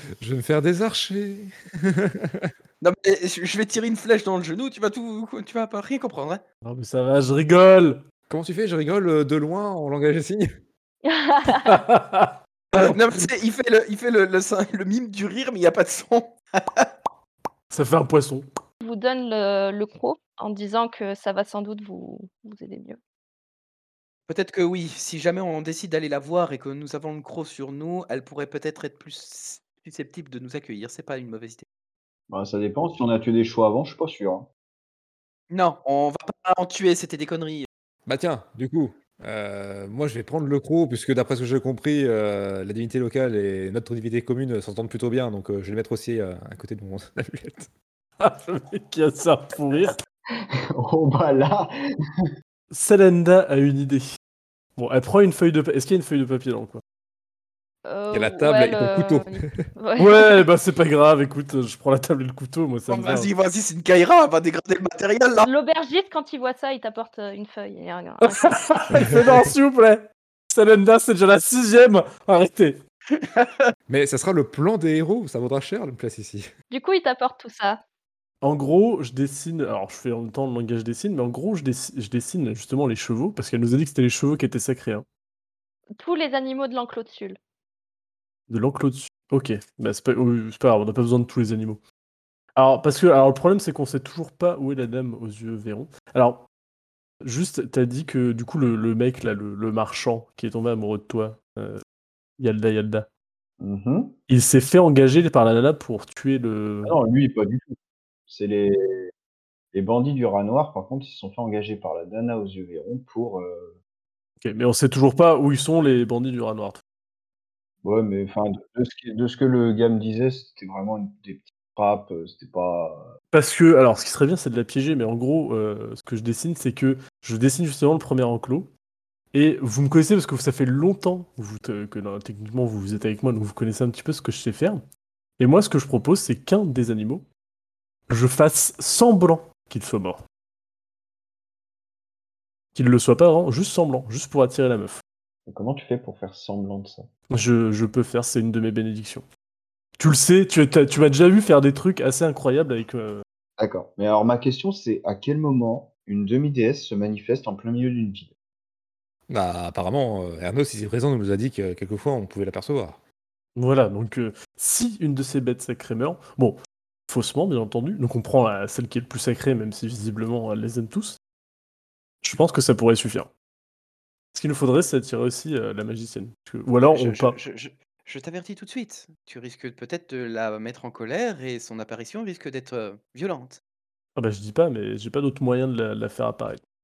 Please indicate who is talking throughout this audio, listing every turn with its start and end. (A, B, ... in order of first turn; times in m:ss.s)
0:00.2-0:02.5 A
0:02.8-0:06.4 B
0:06.6-0:08.0 C
0:08.3-0:10.5 A
0:11.0-0:11.8 D
0:11.5-0:12.9 C
0:12.8-0:16.9 B
0:17.7-0:18.4 C
0:18.8-0:23.0 D
0:24.3-0:31.6 B
0:32.3-0:34.5 E
0:35.5-0:37.7 B
0:38.0-0:47.7 A
0:48.2-0:50.0 C
0:50.7-0:51.7 E
0:52.7-0:54.0 C
0:54.8-0:56.8 C
0:57.8-1:00.4 D
0:58.1-0:59.5 A
1:00.0-1:03.3 C
1:02.9-1:05.5 B
1:05.4-1:08.5 D
1:08.2-1:12.8 C
1:08.9-1:09.4 A
1:13.1-1:13.7 B
1:13.9-1:16.5 A
1:16.7-1:17.8 D
1:18.4-1:25.0 C
1:26.0-1:27.4 D
1:28.5-1:31.8 C
1:32.6-1:36.4 C
1:37.2-1:41.8 C
1:42.4-1:43.1 C
1:43.6-1:44.2 E
1:44.3-1:47.0 C
1:46.8-1:47.8 E
1:48.3-1:49.1 E
1:49.7-1:53.8 E
1:54.4-1:56.8 C
1:57.8-2:03.1 E
2:03.3-2:08.7 C
2:09.3-2:14.8 C
2:15.4-2:17.2 C
2:18.1-2:20.2 C
2:22.7-2:25.0 C
2:25.5-2:27.1 E
2:27.3-2:29.2 C
2:30.0-2:33.2 C
2:33.6-2:38.3 E
2:39.3-2:43.0 A
2:43.6-2:46.6 C
2:47.1-2:51.2 C
2:52.2-2:53.3 C
2:54.3-2:57.4 C
2:56.8-3:03.6 B
3:04.2-3:06.6 C